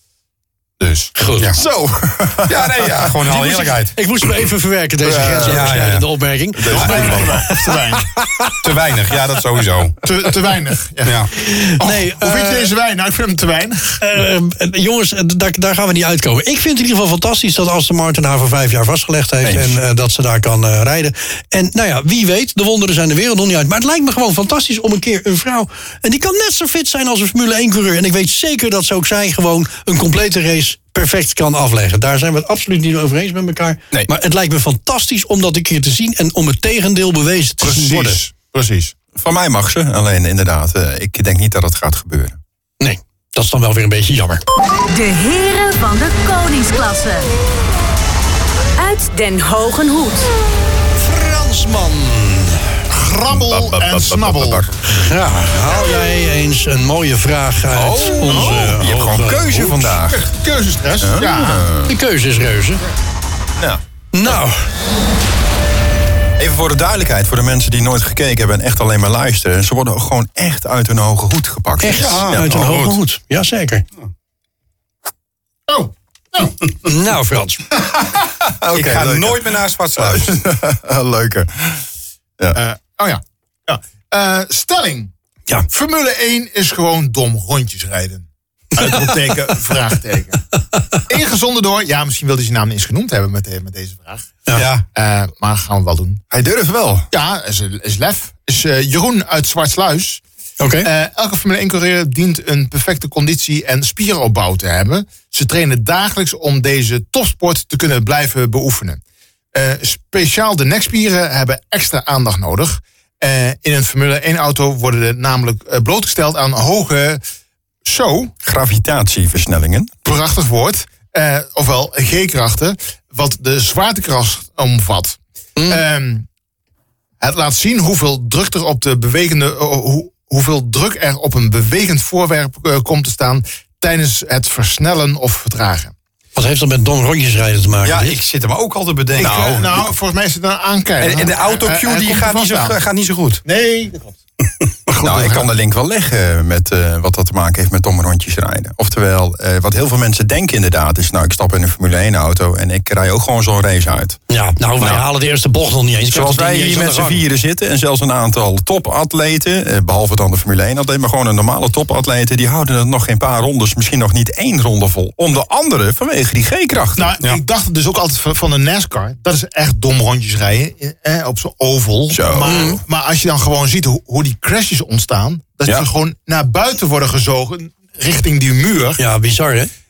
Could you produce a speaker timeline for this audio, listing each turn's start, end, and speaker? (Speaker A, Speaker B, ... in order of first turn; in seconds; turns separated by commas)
Speaker A: 0.8-1.1, Speaker B: 1.1-1.5, Speaker C: 1.5-3.1, Speaker D: 2.5-3.9, Speaker B: 3.2-8.6, Speaker C: 5.0-5.8, Speaker D: 5.4-6.1, Speaker C: 6.6-7.3, Speaker D: 6.6-7.5, Speaker A: 6.7-8.1, Speaker D: 8.6-10.0, Speaker A: 10.0-11.2, Speaker D: 11.0-11.3, Speaker B: 11.3-12.7, Speaker A: 11.8-14.0, Speaker B: 14.0-38.2, Speaker C: 19.4-19.8, Speaker A: 37.6-38.9, Speaker C: 39.1-42.4, Speaker B: 42.8-44.4, Speaker E: 44.9-47.3, Speaker E: 48.8-50.3, Speaker B: 51.0-52.8, Speaker A: 52.9-54.6, Speaker C: 53.3-55.1, Speaker B: 54.9-60.0, Speaker C: 57.7-60.2, Speaker A: 58.2-58.7, Speaker A: 60.1-61.7, Speaker C: 61.0-62.0, Speaker B: 61.9-62.8, Speaker C: 63.6-64.3, Speaker B: 64.1-64.7, Speaker C: 66.4-72.7, Speaker B: 71.8-73.8, Speaker D: 71.9-73.0, Speaker A: 75.7-76.6, Speaker B: 76.8-77.6, Speaker C: 78.2-81.8, Speaker D: 78.7-80.3, Speaker A: 82.5-85.1, Speaker A: 85.7-90.5, Speaker A: 91.1-94.3, Speaker D: 94.5-94.8, Speaker A: 94.9-96.2, Speaker C: 96.3-97.1, Speaker A: 97.1-100.2, Speaker B: 100.6-100.9, Speaker A: 100.8-109.0, Speaker A: 109.5-117.2, Speaker A: 117.8-118.3, Speaker C: 118.4-119.9, Speaker A: 120.0-126.2, Speaker B: 125.6-125.8, Speaker A: 127.2-135.9, Speaker B: 136.3-138.2, Speaker D: 137.8-139.8, Speaker A: 139.2-142.8, Speaker D: 141.0-143.4, Speaker A: 143.4-144.2, Speaker A: 144.9-145.5, Speaker C: 145.0-154.2, Speaker B: 154.3-157.2, Speaker C: 156.1-167.1, Speaker A: 166.9-179.0, Speaker C: 172.1-172.7, Speaker B: 172.4-172.8, Speaker B: 179.0-179.7